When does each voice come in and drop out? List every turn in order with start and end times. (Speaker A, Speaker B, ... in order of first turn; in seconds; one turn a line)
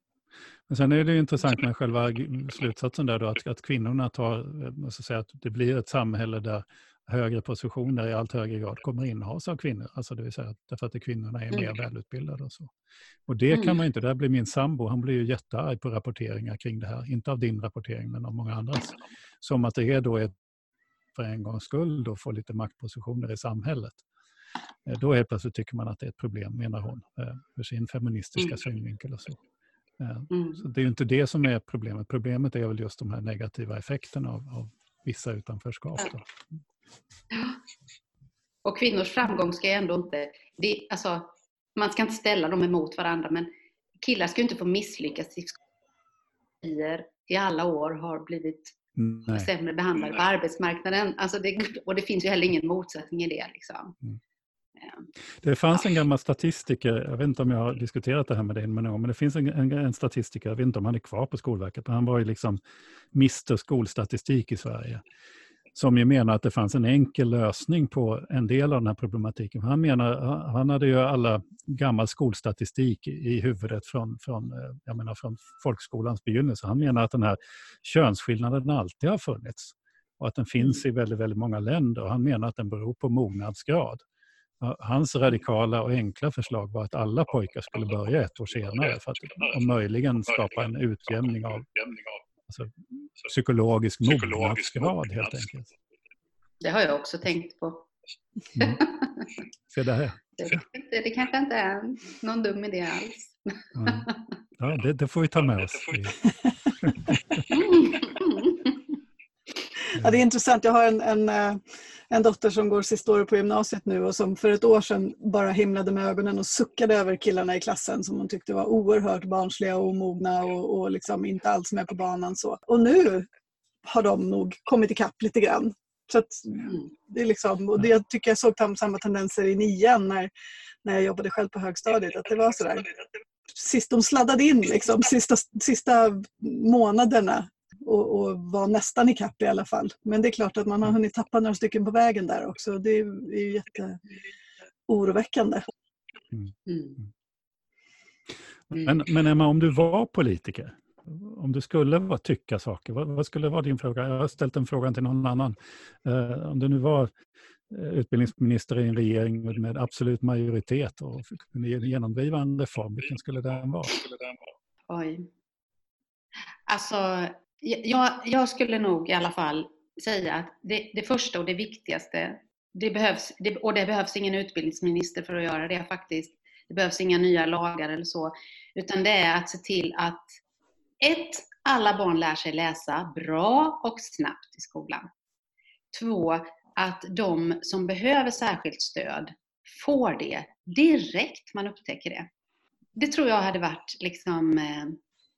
Speaker A: 0.7-12.7
Speaker A: 13.3-20.3
Speaker B: 13.5-13.8
Speaker A: 21.1-24.0
Speaker A: 24.9-29.4
Speaker A: 30.0-36.3
Speaker B: 30.3-30.6
Speaker B: 37.3-37.6
Speaker B: 38.6-43.5
Speaker B: 44.0-45.6
Speaker B: 46.6-54.0
Speaker A: 49.0-49.5
Speaker A: 55.4-62.6
Speaker A: 63.1-65.0
Speaker A: 65.7-84.0
Speaker A: 84.6-95.7
Speaker B: 96.6-97.8
Speaker A: 98.5-98.8
Speaker B: 98.5-99.2
Speaker A: 99.7-100.6
Speaker B: 100.4-104.1
Speaker A: 103.8-106.3
Speaker A: 106.8-107.4
Speaker B: 107.5-108.8
Speaker C: 109.9-123.3
Speaker C: 123.8-130.3
Speaker C: 130.8-132.9
Speaker C: 133.5-144.0
Speaker C: 144.9-145.6
Speaker A: 146.3-147.0
Speaker B: 146.7-147.0
Speaker A: 148.7-157.1
Speaker A: 157.7-164.1
Speaker B: 164.9-165.3
Speaker B: 166.7-180.4
Speaker B: 181.0-185.1
Speaker B: 185.9-192.3
Speaker B: 192.9-195.0